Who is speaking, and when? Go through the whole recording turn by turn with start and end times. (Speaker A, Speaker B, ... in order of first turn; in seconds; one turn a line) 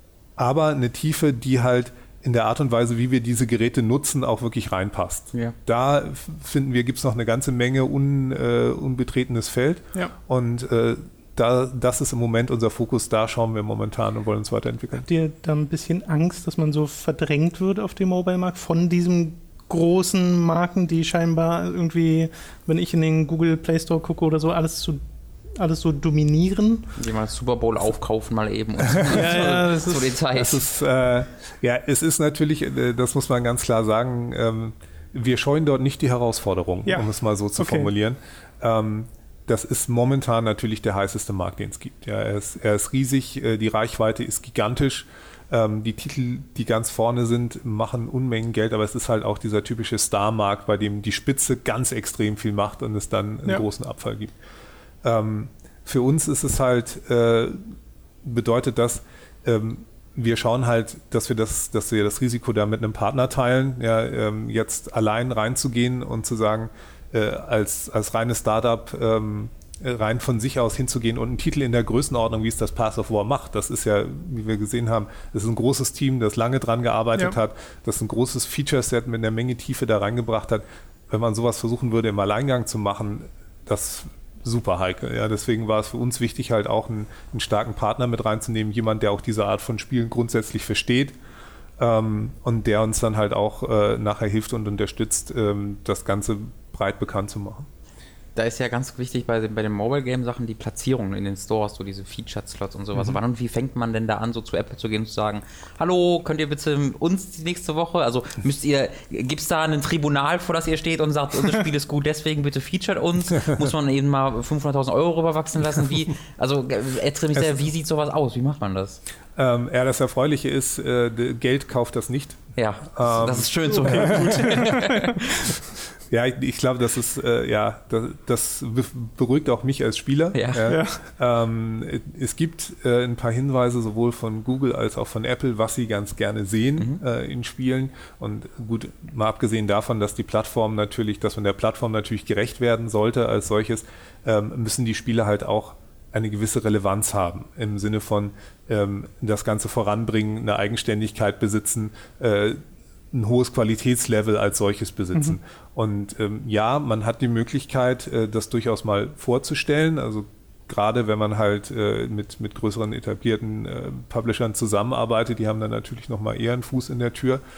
Speaker A: 0.4-15.1
Speaker B: 14.9-25.0
Speaker B: 25.6-26.9
Speaker C: 27.0-30.7
Speaker A: 28.9-29.6
Speaker B: 29.1-30.2
Speaker A: 30.3-54.4
Speaker B: 36.9-37.9
Speaker A: 55.0-57.6
Speaker A: 58.2-91.2
Speaker A: 91.8-97.7
Speaker C: 98.4-119.0
Speaker A: 119.4-124.6
Speaker C: 122.6-125.6
Speaker B: 123.7-125.2
Speaker A: 126.1-152.6
Speaker C: 130.3-130.7
Speaker B: 130.7-131.0
Speaker A: 153.1-167.4